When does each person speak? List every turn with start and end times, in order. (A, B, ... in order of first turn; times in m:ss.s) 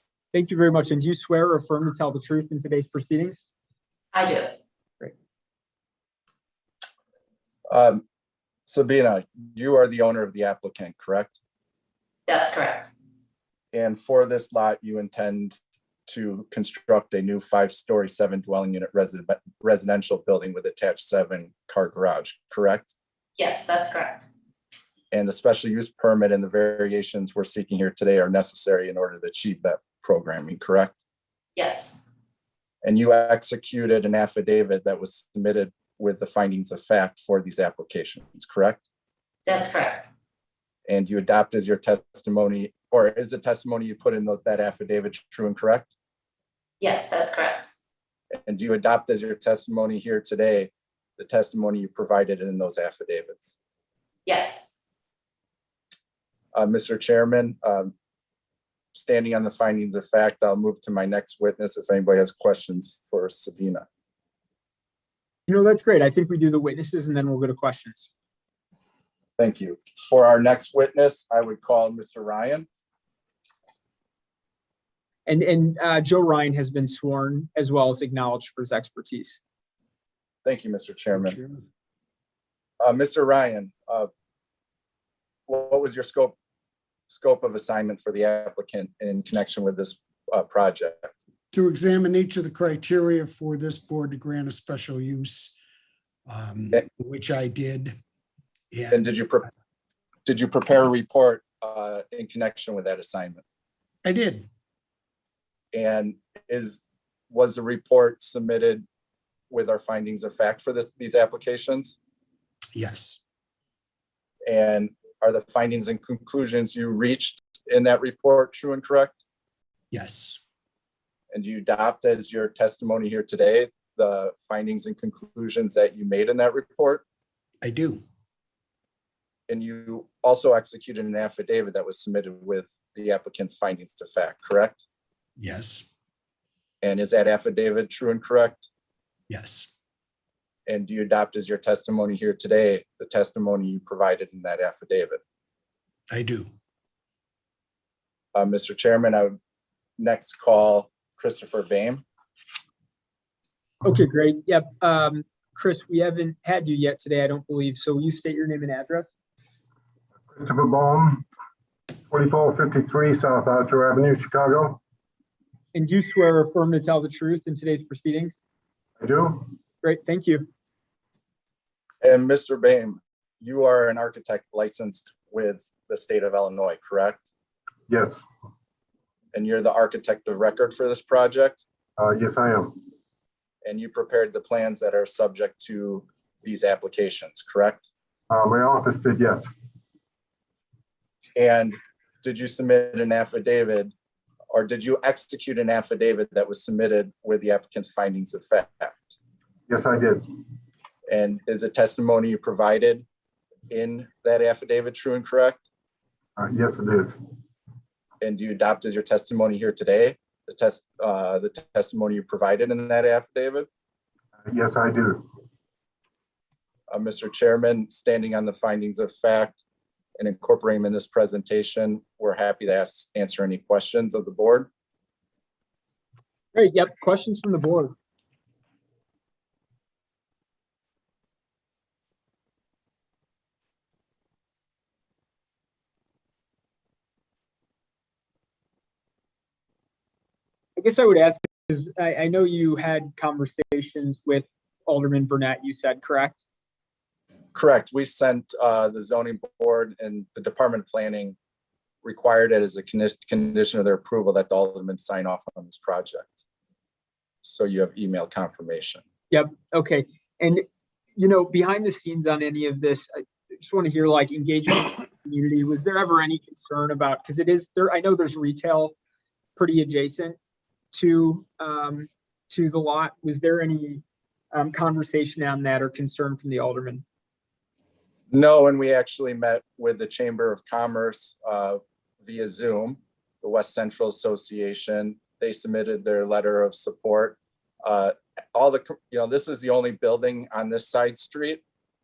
0:00.3-0:03.4 A
0:04.1-0:04.5 B
0:07.7-0:08.0 C
0:08.7-0:11.4 C
0:12.3-0:12.9 B
0:13.7-0:15.6 C
0:16.1-0:22.9 C
0:23.4-0:24.2 B
0:25.1-0:30.9 C
0:31.6-0:32.1 B
0:32.8-0:38.8 C
0:39.4-0:40.1 B
0:40.9-0:45.9 C
0:46.8-0:47.7 B
0:48.3-0:53.6 C
0:54.2-0:54.7 B
0:56.5-0:57.9 C
0:58.9-1:03.8 C
1:05.5-1:08.1 A
1:09.4-1:12.7 C
1:15.2-1:19.4 A
1:20.4-1:21.4 C
1:21.1-1:21.6 D
1:22.8-1:24.1 C
1:25.5-1:26.3 C
1:27.1-1:31.1 C
1:31.5-1:35.5 D
1:36.3-1:38.0 D
1:38.7-1:39.1 D
1:38.9-1:39.4 C
1:40.2-1:43.4 C
1:44.0-1:44.5 D
1:45.7-1:48.8 C
1:49.5-1:52.0 C
1:52.7-1:53.2 D
1:54.4-1:59.2 C
1:59.9-2:00.4 D
2:01.3-2:07.0 C
2:07.6-2:08.0 D
2:09.5-2:14.8 C
2:15.4-2:15.9 D
2:16.8-2:18.7 C
2:19.3-2:19.7 D
2:20.7-2:25.2 C
2:26.1-2:26.5 D
2:28.3-2:29.4 C
2:30.0-2:32.0 C
2:33.8-2:39.1 A
2:40.3-2:41.2 E
2:42.1-2:44.8 E
2:45.7-2:48.3 A
2:49.0-2:49.5 E
2:49.8-2:50.5 A
2:52.0-2:57.2 C
2:57.9-2:58.2 E
2:59.3-3:01.6 C
3:02.0-3:02.8 E
3:03.6-3:07.9 C
3:08.3-3:09.5 E
3:11.4-3:13.9 C
3:14.5-3:19.2 C
3:19.7-3:20.3 E
3:21.1-3:23.0 C
3:23.7-3:25.7 C
3:26.4-3:27.2 E
3:28.2-3:33.7 C
3:34.4-3:35.3 E
3:36.9-3:39.6 C
3:40.2-3:44.7 C
3:46.5-3:47.9 A
4:00.8-4:06.4 A
4:07.5-4:11.4 C
4:12.0-4:16.4 C
4:17.4-4:19.0 C
4:19.3-4:28.9 A
4:29.6-4:30.4 A
4:30.9-4:37.0 A
4:38.3-4:51.6 C